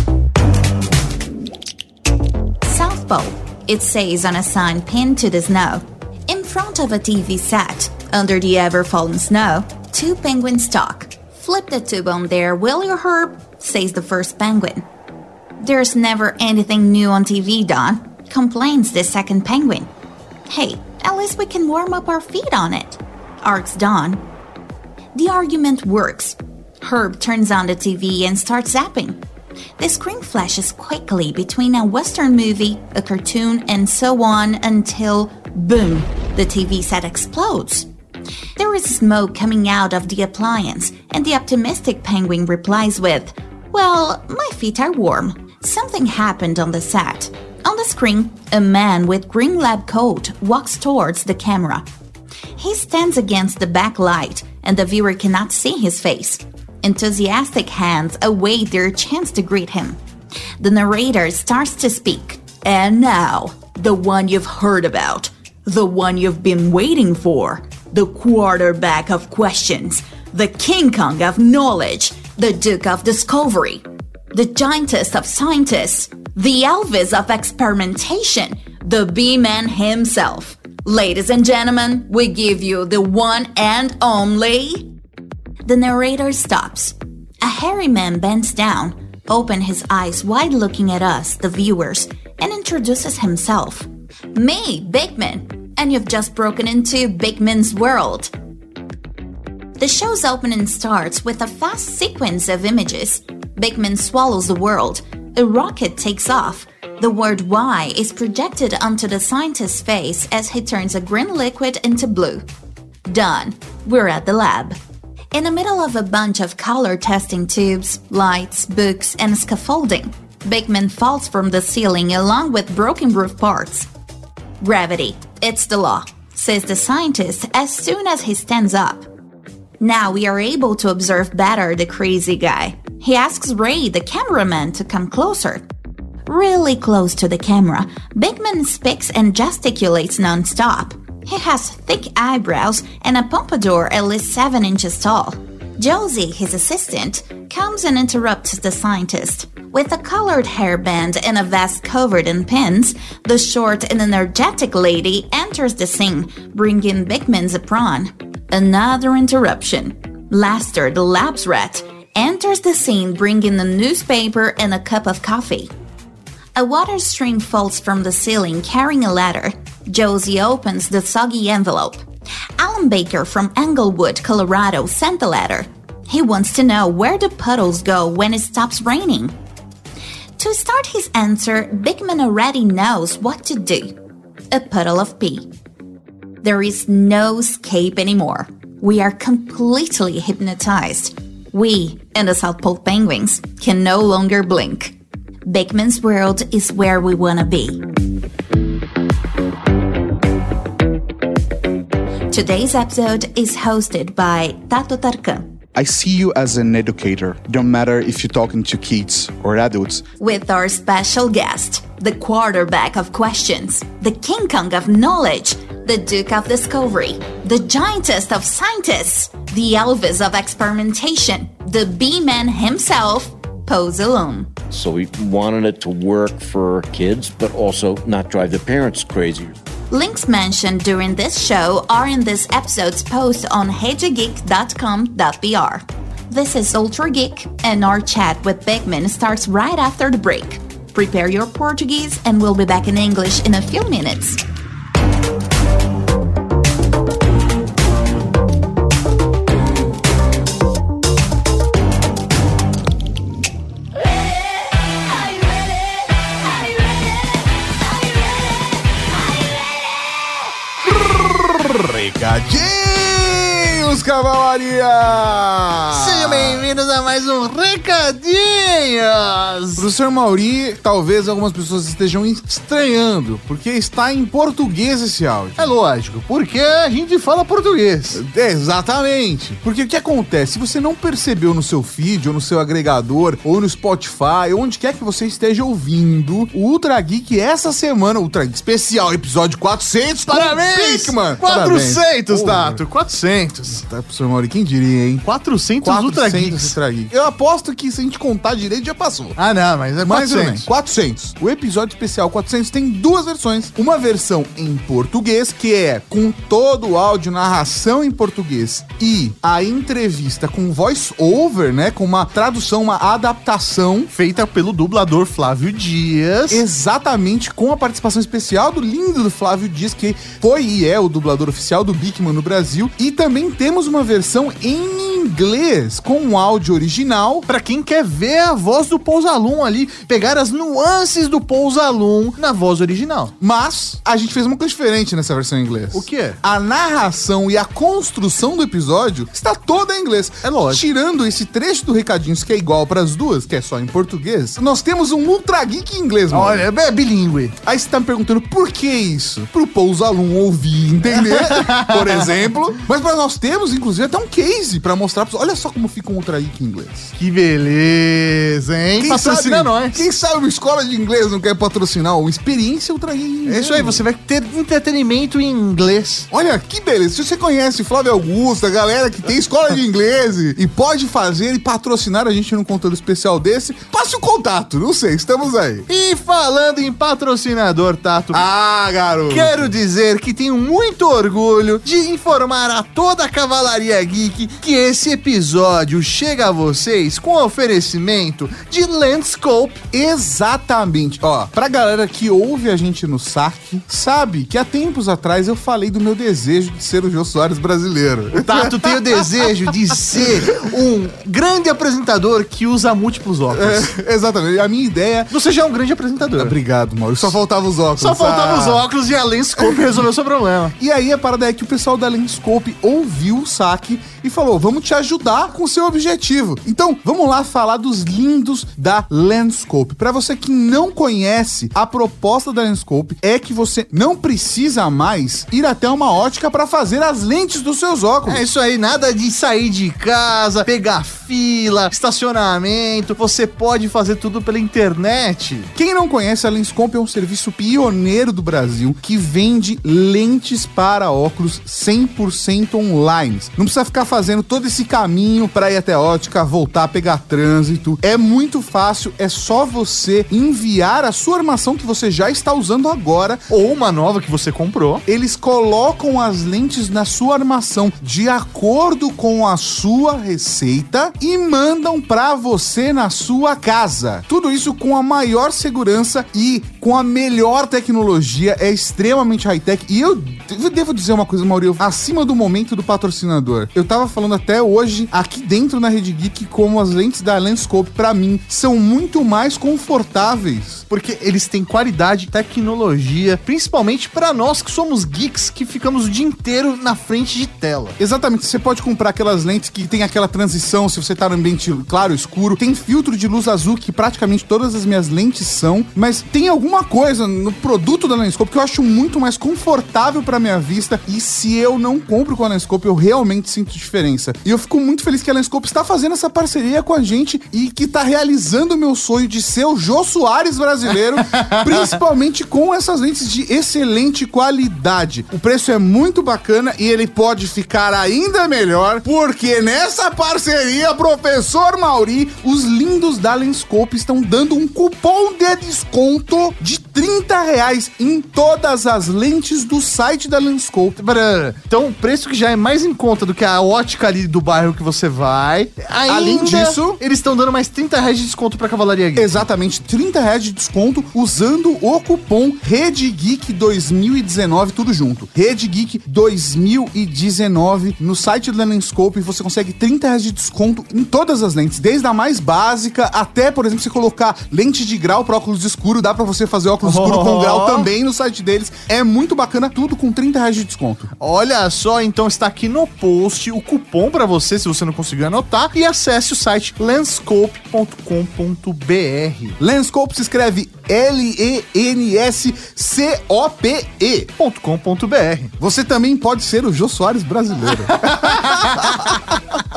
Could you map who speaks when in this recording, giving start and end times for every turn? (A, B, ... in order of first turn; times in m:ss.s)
0:02.6-0:14.8 A
0:15.6-0:19.9 A
0:20.5-0:24.2 A
0:25.1-0:29.2 A
0:29.8-0:37.9 A
0:38.6-0:51.8 A
0:52.6-1:00.0 A
1:00.6-1:24.9 A
1:25.6-1:38.3 A
1:39.8-1:52.5 A
1:53.1-1:54.8 A
1:55.3-2:03.9 A
2:04.6-2:09.1 A
2:09.8-2:15.6 A
2:16.3-2:45.7 A
2:46.5-2:52.0 A
2:52.6-2:59.3 A
3:00.4-3:03.9 A
3:04.5-3:05.5 A
3:06.4-3:17.8 A
3:22.3-3:25.5 A
3:25.7-3:30.0 B
3:30.2-3:44.5 A
3:44.7-3:49.5 C
3:49.9-4:04.4 A
4:20.8-4:26.6 D
4:25.9-4:29.8 E
4:29.7-4:35.7 D
4:35.6-4:38.2 E
4:38.1-4:52.8 D
4:50.3-4:53.8 E
4:53.7-4:55.3 D
4:55.2-4:56.7 E
4:55.8-4:59.4 D
4:59.4-5:00.7 E
5:00.0-5:14.1 D
5:14.1-5:16.6 E
5:16.5-5:27.5 D
5:27.5-5:33.3 E
5:33.4-5:46.7 D
5:35.9-5:36.4 E
5:40.4-5:40.8 E
5:46.3-5:47.6 E
5:47.6-5:57.1 D
5:51.1-5:52.2 E
5:57.1-6:00.0 E
5:59.0-6:04.0 D
6:03.4-6:06.3 E
6:06.3-6:15.9 D
6:15.9-6:18.4 E
6:18.3-6:19.7 D
6:19.3-6:29.9 E
6:29.9-6:39.4 D
6:38.3-6:43.9 E
6:43.5-6:45.3 D
6:45.3-6:46.5 E
6:46.4-6:48.8 D
6:48.0-6:50.8 E
6:50.8-7:08.4 D
7:08.2-7:15.7 E
7:15.7-7:33.5 D
7:33.5-7:35.0 E
7:35.0-8:00.9 D
8:00.9-8:08.0 E
8:08.0-8:51.0 D
8:51.0-8:59.4 E
8:56.1-8:57.0 D
8:59.2-9:21.1 D
9:16.8-9:17.9 E
9:21.2-9:29.6 E
9:29.6-9:34.3 D
9:34.4-9:35.5 E
9:35.6-9:39.4 D
9:37.9-9:39.1 E